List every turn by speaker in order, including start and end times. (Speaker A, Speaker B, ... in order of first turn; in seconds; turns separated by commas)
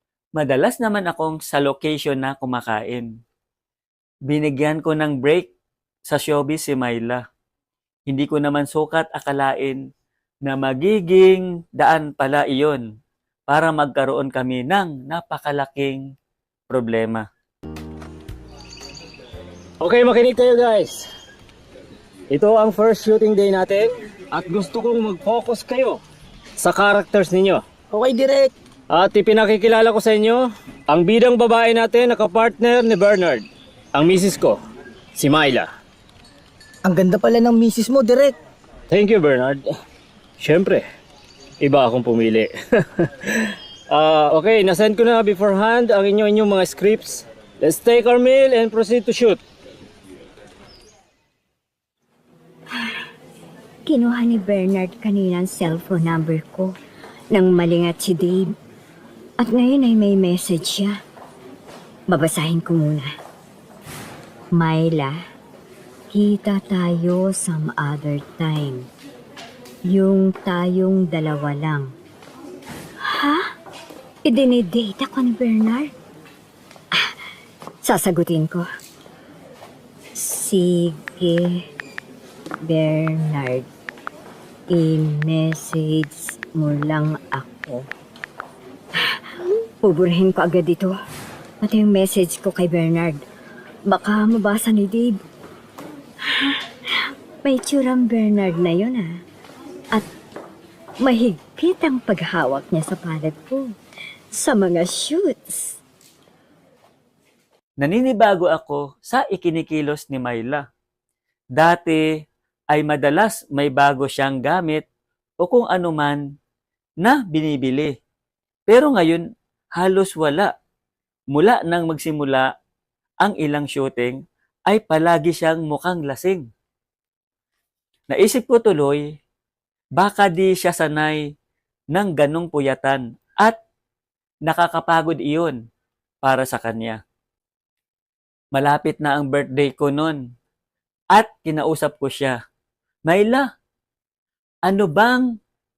Speaker A: 0.3-3.1, Speaker A: 4.3-5.5, Speaker A: 6.0-7.2, Speaker A: 8.1-9.8, Speaker A: 10.4-12.8, Speaker A: 13.5-16.0, Speaker A: 16.7-17.2, Speaker B: 19.8-21.1, Speaker B: 22.3-26.0, Speaker B: 26.6-27.6, Speaker C: 27.9-28.5, Speaker B: 28.9-34.6, Speaker B: 35.1-35.7, Speaker C: 36.8-38.4, Speaker B: 38.9-39.6, Speaker B: 40.4-40.8, Speaker B: 41.6-49.4, Speaker D: 53.9-56.8, Speaker D: 57.3-58.5, Speaker D: 59.4-61.0, Speaker D: 62.1-63.1, Speaker D: 64.5-65.2, Speaker D: 66.1-68.9, Speaker D: 69.9-71.9, Speaker D: 73.0-73.4, Speaker D: 74.2-75.9, Speaker D: 77.8-78.6, Speaker D: 80.1-81.7, Speaker D: 82.6-83.7, Speaker D: 84.7-87.9, Speaker D: 89.8-90.9, Speaker D: 91.6-93.2, Speaker D: 93.9-95.2, Speaker D: 96.2-99.2, Speaker D: 101.0-103.7, Speaker D: 104.3-105.8, Speaker A: 107.8-110.6, Speaker A: 111.5-112.1, Speaker A: 112.7-114.8, Speaker A: 115.4-116.2, Speaker A: 117.0-117.9, Speaker A: 118.7-120.5, Speaker A: 121.3-122.5, Speaker A: 123.2-126.4, Speaker A: 128.1-129.0, Speaker A: 130.0-131.2, Speaker A: 131.9-133.6, Speaker A: 134.4-135.6, Speaker A: 136.2-137.0, Speaker A: 138.5-140.2, Speaker A: 141.1-142.4, Speaker A: 143.1-143.5, Speaker A: 144.7-145.3